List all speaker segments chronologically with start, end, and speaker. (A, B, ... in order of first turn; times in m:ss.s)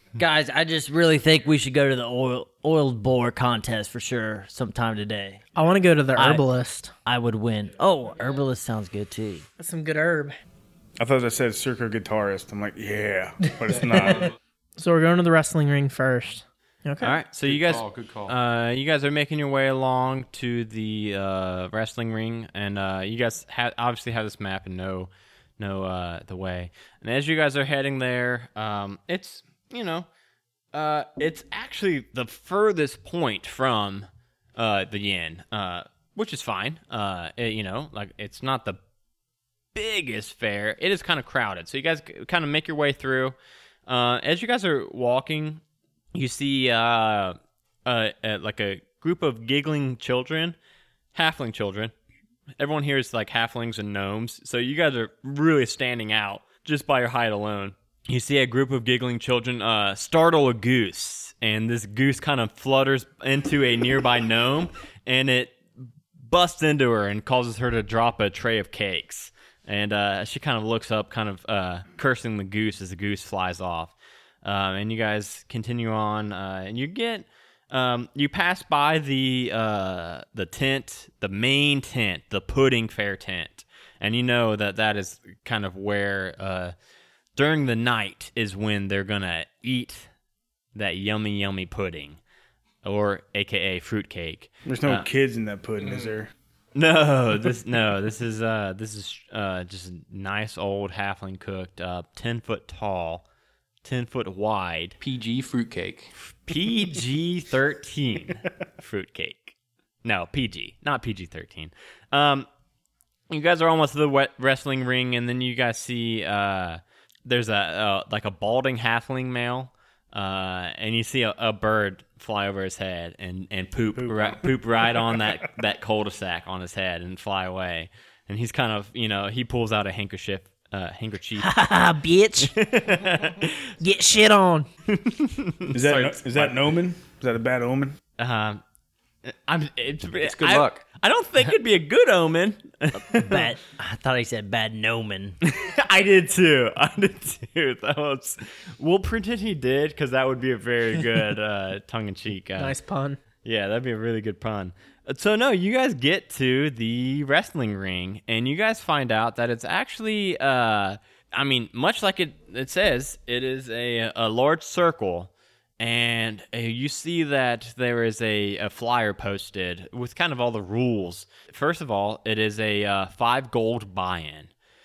0:00.2-0:05.4 A
0:05.6-0:06.9 B
0:06.2-0:06.4 A
0:07.0-0:09.4 A
0:09.6-0:10.4 B
0:11.0-0:14.3 C
0:13.7-0:14.3 D
0:14.8-0:17.2 B
0:17.0-0:30.1 E
0:17.5-0:18.4 D
0:30.7-0:38.8 E
0:39.7-0:43.4 E
0:43.9-0:45.6 E
0:46.1-0:50.6 E
0:51.1-0:51.9 E
0:52.6-1:05.6 E
1:06.2-1:26.7 E
1:27.4-1:30.1 E
1:30.8-1:32.2 E
1:32.8-1:35.1 E
1:34.7-1:36.3 C
1:36.8-1:43.2 E
1:43.8-1:45.0 E
1:45.0-1:46.1 D
1:46.4-1:52.5 E
1:53.3-2:11.5 E
2:04.0-2:04.5 C
2:11.4-2:12.5 B
2:12.4-2:13.7 E
2:13.8-2:14.7 B
2:14.9-2:16.6 E
2:15.7-2:18.0 C
2:18.2-2:18.6 E
2:19.2-2:23.4 E
2:20.2-2:20.8 D
2:23.2-2:25.4 A
2:25.4-2:32.8 E
2:32.6-2:33.2 B
2:33.4-2:54.5 E